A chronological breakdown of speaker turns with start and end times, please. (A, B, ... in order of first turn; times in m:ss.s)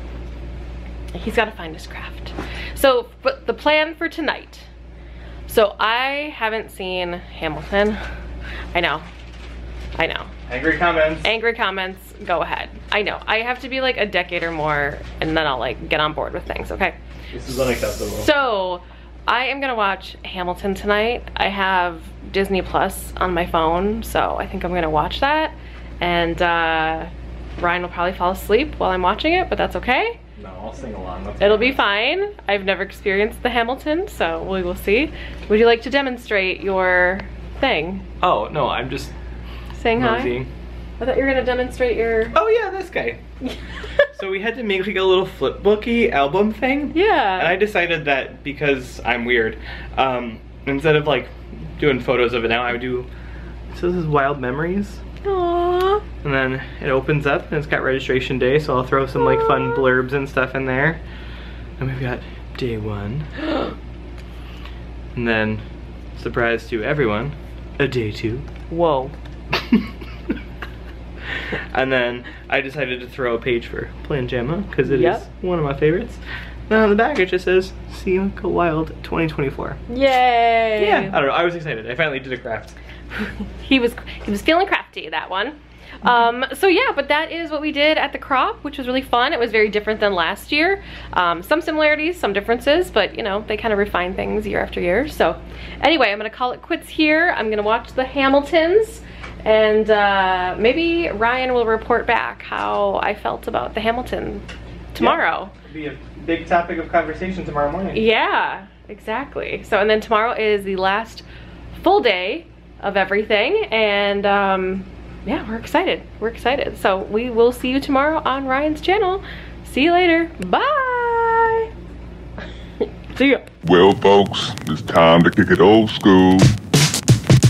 0:01.1-0:04.7 A
0:05.5-0:08.0 A
0:08.7-0:09.0 A
0:10.0-0:10.3 A
0:10.5-0:11.2 B
0:11.2-0:17.0 A
0:17.3-0:18.3 B
0:18.1-0:30.2 A
0:30.4-0:31.8 B
0:31.4-0:38.0 A
0:38.2-0:39.1 B
0:39.7-0:40.4 A
0:40.0-0:40.5 B
0:41.0-0:42.4 A
0:42.3-0:43.2 B
0:44.1-0:53.1 B
0:46.9-0:47.6 A
0:53.7-0:55.0 B
0:55.2-0:56.0 A
0:56.2-1:01.0 B
1:01.8-1:03.5 B
1:05.2-1:05.6 B
1:06.2-1:08.5 B
1:08.7-1:09.1 A
1:09.6-1:09.9 B
1:11.5-1:19.8 B
1:14.8-1:15.2 A
1:19.9-1:21.2 A
1:20.8-1:22.8 B
1:23.1-1:45.5 A
1:45.0-1:48.0 B
1:47.9-2:01.7 A
2:02.8-2:03.5 A
2:03.6-2:06.5 C